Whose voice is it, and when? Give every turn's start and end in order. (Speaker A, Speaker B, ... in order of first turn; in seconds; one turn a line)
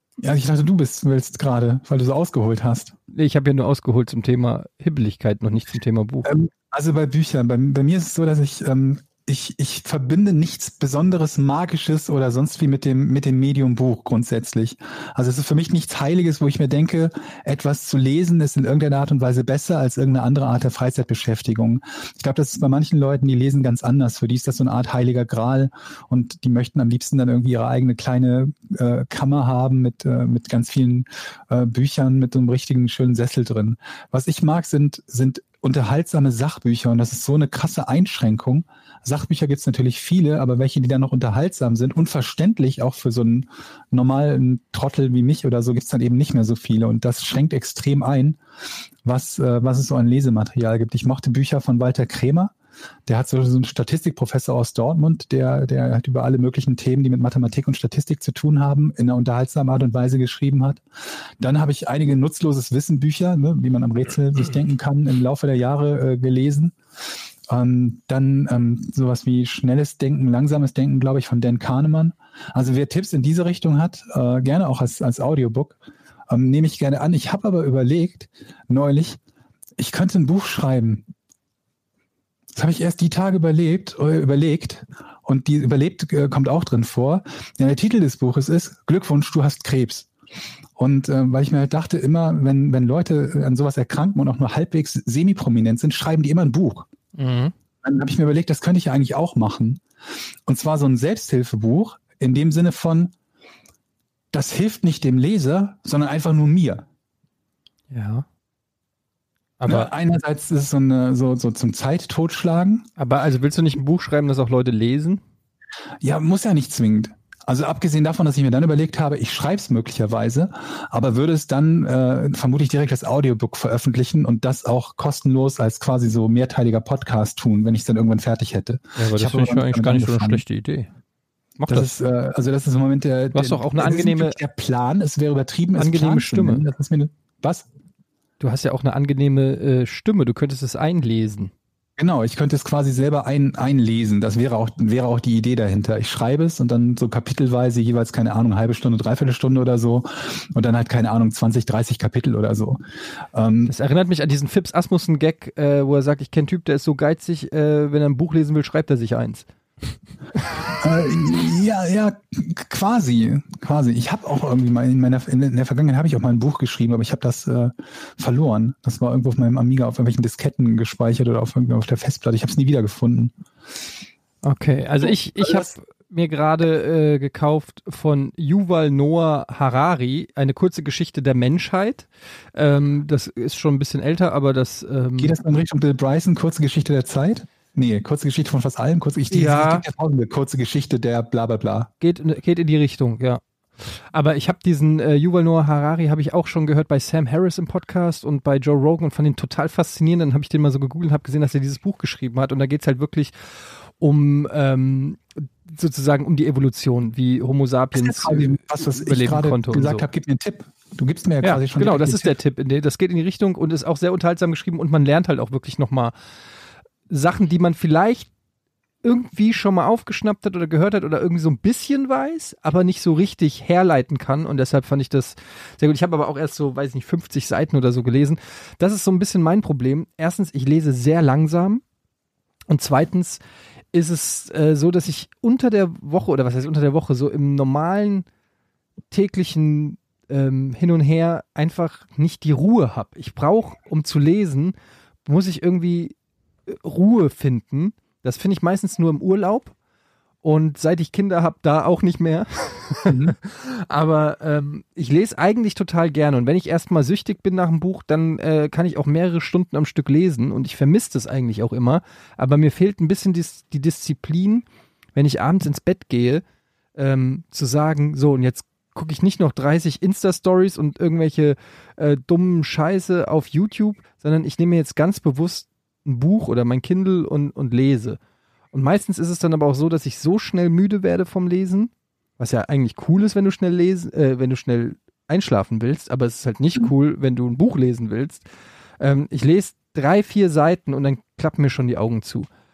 Speaker A: 0.2-2.9
Speaker B: 3.1-6.3
Speaker A: 6.2-48.4
Speaker A: 49.0-52.5
Speaker A: 53.1-60.8
Speaker A: 61.4-66.7
Speaker A: 67.5-75.8
Speaker A: 76.3-79.2
Speaker A: 79.8-81.0
Speaker A: 82.5-90.1
Speaker A: 90.8-96.9
Speaker B: 97.2-97.5
Speaker A: 97.8-99.8
Speaker A: 100.5-103.1
Speaker A: 104.3-106.8
Speaker B: 107.9-108.2
Speaker B: 109.6-109.9
Speaker A: 109.7-112.9
Speaker B: 113.0-115.2
Speaker A: 116.0-130.4
Speaker B: 129.0-130.9
Speaker B: 131.6-131.9
Speaker A: 131.7-137.7
Speaker B: 133.3-134.4
Speaker B: 135.8-136.6
Speaker B: 138.4-141.5
Speaker A: 142.0-152.8
Speaker A: 153.3-153.7
Speaker B: 153.7-159.5
Speaker A: 160.8-173.3
Speaker B: 174.4-185.4
Speaker A: 175.0-175.7
Speaker A: 185.2-191.9
Speaker B: 189.3-189.8
Speaker B: 192.0-203.3
Speaker B: 204.0-210.1
Speaker A: 207.9-212.3
Speaker B: 211.4-216.1
Speaker B: 217.1-218.3
Speaker B: 219.0-231.8
Speaker B: 232.7-233.4
Speaker B: 233.9-238.3
Speaker B: 239.1-246.1
Speaker B: 246.7-249.7
Speaker B: 250.4-266.4
Speaker A: 253.1-253.3
Speaker B: 266.9-278.2
Speaker B: 278.7-288.4
Speaker B: 289.0-292.5